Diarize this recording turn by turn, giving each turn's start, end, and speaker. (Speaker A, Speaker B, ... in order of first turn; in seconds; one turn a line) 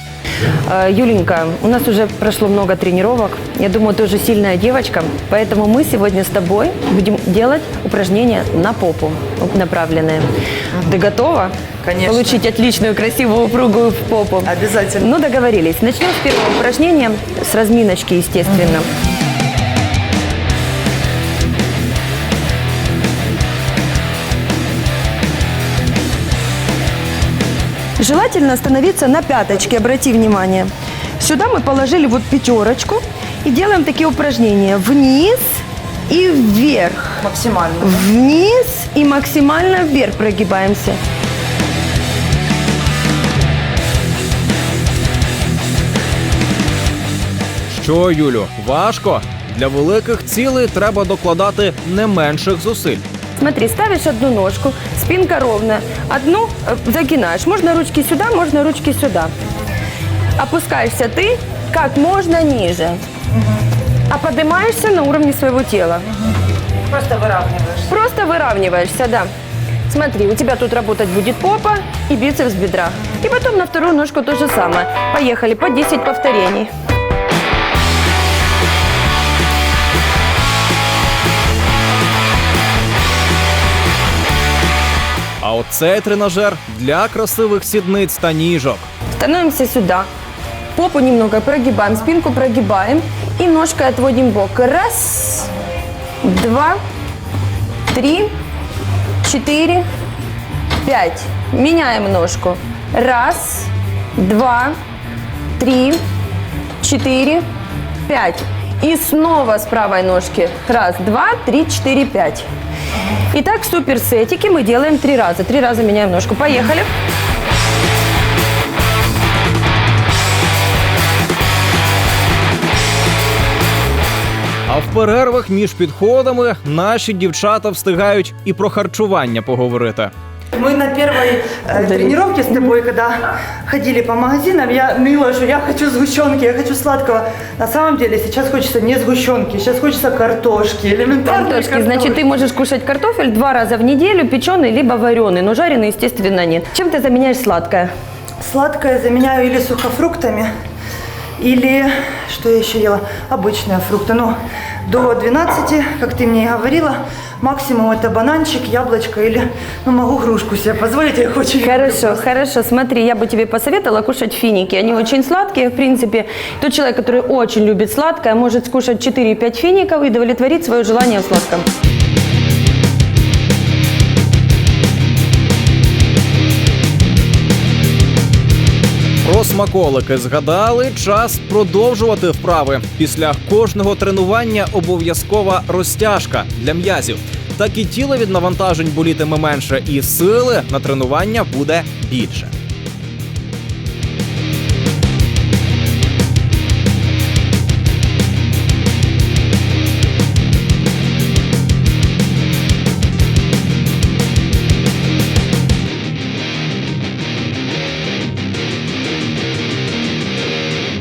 Speaker A: 0.6-10.3
Speaker A: 10.8-18.9
Speaker B: 11.8-12.4
Speaker B: 14.4-15.1
Speaker A: 28.0-37.3
Speaker B: 37.2-38.1
Speaker A: 37.8-41.0
Speaker C: 47.7-53.0
Speaker A: 53.4-59.3
Speaker A: 60.4-63.0
Speaker A: 64.1-66.1
Speaker B: 66.9-67.9
Speaker A: 67.9-69.3
Speaker A: 69.9-76.7
Speaker C: 85.4-88.9
Speaker A: 89.1-90.1
Speaker A: 90.8-95.5
Speaker A: 96.2-96.8
Speaker A: 97.9-98.3
Speaker A: 99.2-99.9
Speaker A: 100.8-104.8
Speaker A: 105.6-106.0
Speaker A: 106.8-107.5
Speaker A: 108.1-112.5
Speaker A: 113.3-116.9
Speaker C: 124.7-130.1
Speaker B: 130.6-142.3
Speaker A: 131.8-132.1
Speaker A: 141.4-147.9
Speaker B: 148.4-150.5
Speaker B: 151.4-154.3
Speaker B: 154.9-162.2
Speaker A: 161.6-171.7
Speaker C: 179.2-192.5